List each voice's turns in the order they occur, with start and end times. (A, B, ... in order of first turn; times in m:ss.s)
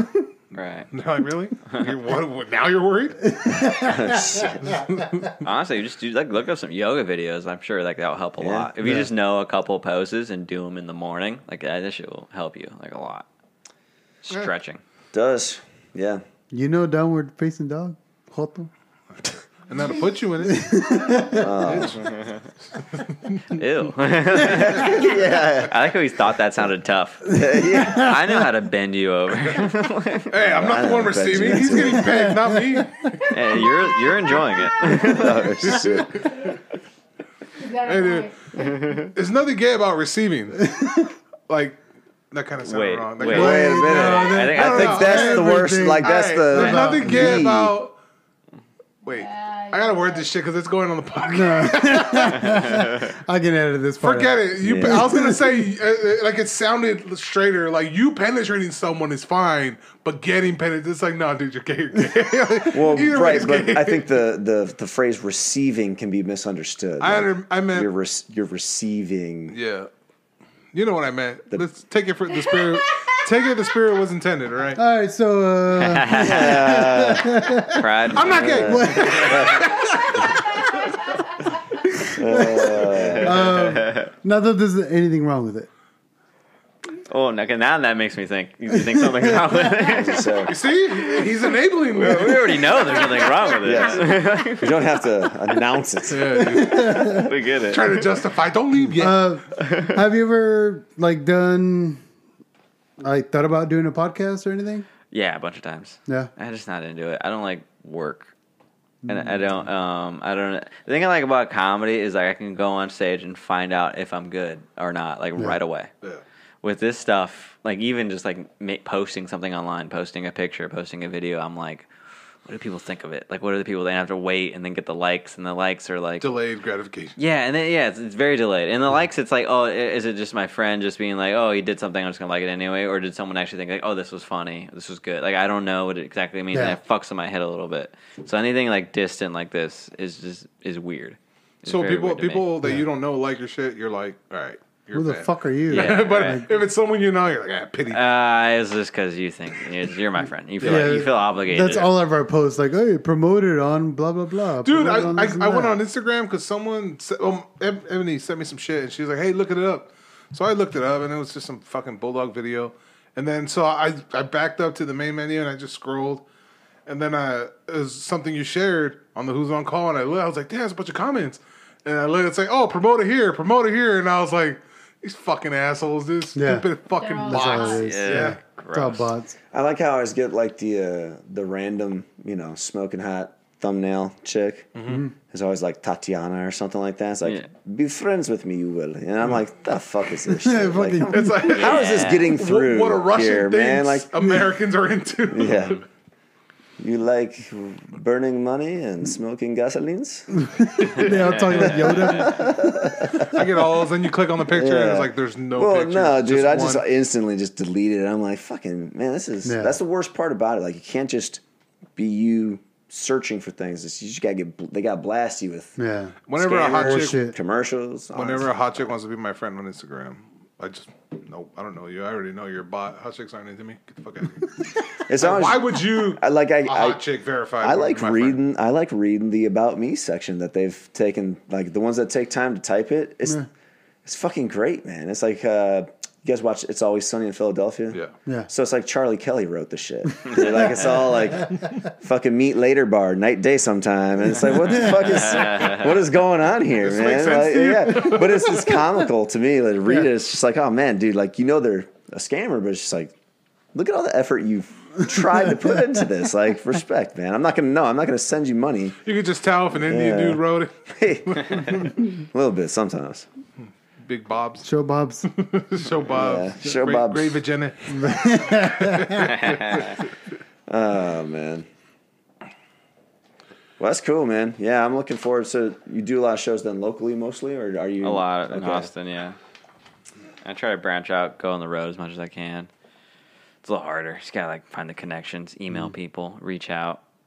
0:00.5-0:00.9 A
0:00.9-0:03.4 B
0:03.4-0:04.4 C
0:03.6-0:04.8 D
0:04.6-0:05.3 B
0:05.4-0:13.3 A
0:08.4-0:08.7 D
0:08.8-0:09.1 C
0:14.2-0:14.8 A
0:15.1-0:16.2 D
0:16.5-0:18.7 C
0:19.7-0:20.9 B
0:20.5-0:21.5 C
0:21.3-0:22.0 D
0:21.6-0:22.2 B
0:22.0-0:22.4 A
0:23.0-0:23.4 B
0:23.5-0:30.3 A
0:24.4-0:25.8 D
0:27.2-0:28.2 D
0:27.3-0:28.1 C
0:30.3-0:33.4 B
0:30.4-0:32.1 D
0:31.8-0:32.3 C
0:33.3-0:35.8 A
0:34.8-0:36.1 D
0:35.6-0:36.3 B
0:36.3-0:36.6 E
0:37.6-0:39.1 E
0:37.8-0:38.3 B
0:38.5-0:39.1 A
0:39.1-0:40.7 B
0:40.8-0:41.1 C
0:41.5-0:41.8 B
0:42.3-0:48.0 B
0:42.6-0:45.2 A
0:43.2-0:47.8 D
0:43.3-0:47.5 C
0:49.0-0:52.7 B
0:49.1-0:50.3 E
0:51.3-0:55.5 C
0:52.5-0:53.0 A
0:54.0-1:04.1 B
0:54.6-0:55.2 D
1:02.7-1:09.6 D
1:07.0-1:07.9 B
1:09.5-1:09.9 B
1:10.7-1:14.8 B
1:12.3-1:13.2 E
1:14.8-1:17.8 C
1:15.7-1:16.9 A
1:16.1-1:17.6 D
1:17.6-1:19.5 A
1:18.1-1:20.2 B
1:18.2-1:19.7 D
1:18.7-1:19.5 C
1:19.6-1:21.8 E
1:21.9-1:25.7 C
1:22.1-1:23.5 D
1:23.0-1:24.1 A
1:27.1-1:30.4 A
1:29.8-1:30.5 D
1:30.5-1:33.4 B
1:31.9-1:34.8 A
1:33.6-1:36.4 D
1:36.1-1:39.3 B
1:36.3-1:37.3 C
1:37.0-1:38.0 A
1:39.0-1:42.0 C
1:39.6-1:40.0 A
1:43.0-1:44.9 C
1:45.1-1:48.3 A
1:49.0-1:49.4 C
1:49.1-1:55.9 A
1:56.6-2:01.9 A
2:02.5-2:06.3 A
2:06.2-2:07.2 B
2:07.2-2:22.5 A
2:16.5-2:16.8 C
2:21.6-2:28.0 B
2:25.0-2:26.5 C
2:25.7-2:26.4 A
2:27.9-2:31.9 A
2:30.6-2:35.8 C
2:30.6-2:30.9 B
2:34.6-2:46.2 B
2:46.9-2:58.4 B
2:56.4-2:56.7 C
2:57.0-2:58.0 E
2:57.3-2:59.4 C
2:57.8-2:59.1 A
2:59.5-3:04.7 D
3:04.8-3:05.0 B
3:04.9-3:05.1 C
3:05.3-3:14.3 D
3:10.3-3:11.5 C
3:11.1-3:15.8 B
3:11.5-3:12.3 A
3:15.3-3:15.8 D
3:16.8-3:20.5 D
3:20.5-3:22.6 C
3:21.0-3:22.4 A
3:21.0-3:23.4 D
3:23.2-3:26.8 B
3:24.5-3:31.4 D
3:29.4-3:29.8 C
3:32.0-3:35.8 D
3:35.8-3:36.2 C
3:36.3-3:37.2 B
3:36.4-3:38.5 D
3:36.7-3:37.4 C
3:38.1-3:44.5 B
3:45.1-3:47.0 D
3:45.1-3:48.4 B
3:47.6-3:53.4 D
3:54.0-4:13.2 D
4:00.2-4:01.4 C
4:05.3-4:05.8 A
4:06.8-4:08.8 B
4:13.7-4:19.0 D
4:19.0-4:21.8 B
4:19.8-4:23.3 D
4:24.0-4:24.7 B
4:24.6-4:25.3 C
4:25.3-4:30.0 B
4:26.1-4:27.4 D
4:27.9-4:29.3 C
4:29.3-4:29.9 A
4:30.7-4:31.7 D
4:33.8-4:38.9 D
4:38.0-4:39.4 A
4:40.4-4:42.7 A
4:43.6-4:47.0 A